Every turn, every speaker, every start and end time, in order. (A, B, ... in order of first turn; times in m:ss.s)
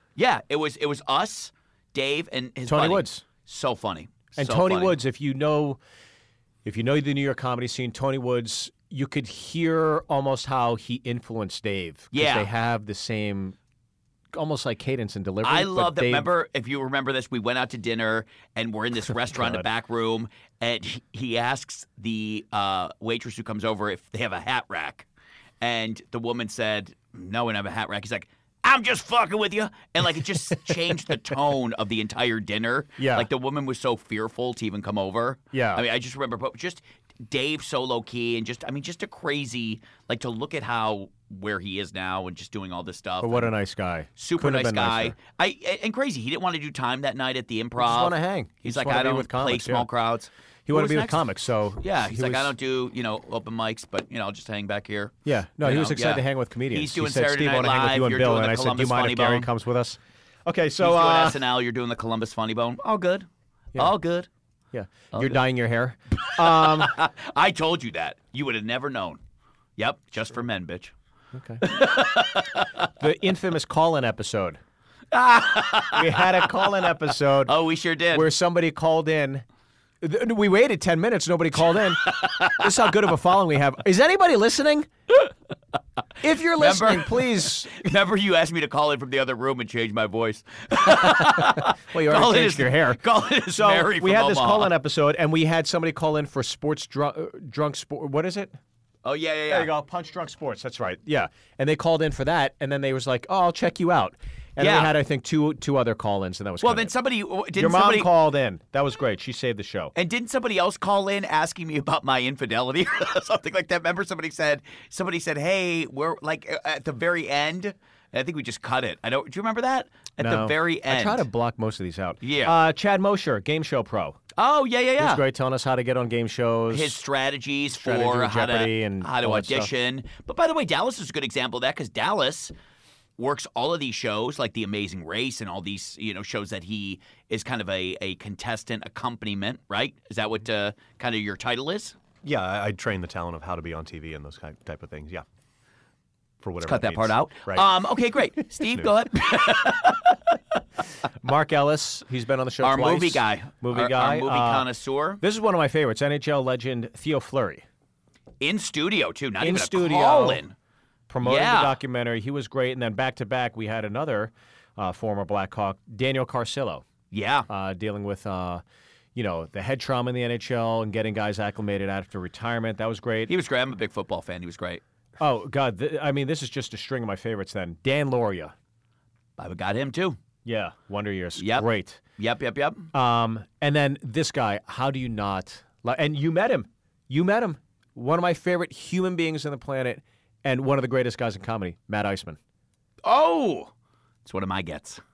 0:00.2-0:04.9 A
0:02.7-0:03.2 B
0:04.4-0:05.8 B
0:06.6-0:13.6 B
0:12.1-0:12.5 A
0:14.3-0:16.3 B
0:15.4-0:25.0 A
0:19.2-0:19.6 B
0:25.6-0:43.5 A
0:33.0-0:33.3 B
0:35.5-0:35.8 B
0:43.2-0:45.1 B
0:44.2-0:51.2 A
0:47.8-0:49.8 B
0:50.7-0:52.5 B
0:51.8-0:59.5 A
0:55.2-1:01.4 B
1:00.8-1:04.3 A
1:04.7-1:07.0 B
1:06.2-1:09.2 A
1:09.8-1:10.9 A
1:11.3-1:11.7 B
1:11.6-1:12.9 A
1:13.0-1:14.6 B
1:15.1-1:16.4 A
1:15.9-1:17.6 B
1:17.4-1:18.3 A
1:18.1-1:19.4 B
1:20.0-1:24.9 B
1:22.0-1:22.7 A
1:26.2-1:27.8 B
1:26.6-1:34.7 A
1:30.8-1:33.0 B
1:33.5-1:38.6 B
1:39.0-1:39.7 A
1:39.5-1:46.9 B
1:44.6-1:44.9 A
1:46.6-1:48.1 A
1:47.5-1:49.9 B
1:49.9-2:01.2 A
2:00.2-2:04.2 B
2:02.2-2:02.5 A
2:04.4-2:05.2 A
2:05.0-2:07.0 B
2:06.7-2:12.5 A
2:07.8-2:09.7 B
2:13.2-2:22.0 A
2:22.2-2:25.2 C
2:26.4-2:27.7 C
2:26.6-2:30.2 A
2:28.6-2:28.9 C
2:31.2-2:34.7 B
2:32.6-2:35.2 A
2:35.2-2:37.6 B
2:38.4-2:40.5 A
2:39.4-2:40.4 B
2:41.1-2:46.8 B
2:41.2-2:41.8 A
2:47.1-2:47.5 A
2:47.5-2:48.6 B
2:49.1-2:53.3 B
2:53.3-2:54.8 A
2:55.2-2:58.5 B
2:59.4-3:00.2 A
3:00.4-3:02.0 B
3:01.4-3:01.7 A
3:02.2-3:02.9 A
3:02.9-3:12.4 B
3:13.0-3:13.7 A
3:14.2-3:15.0 A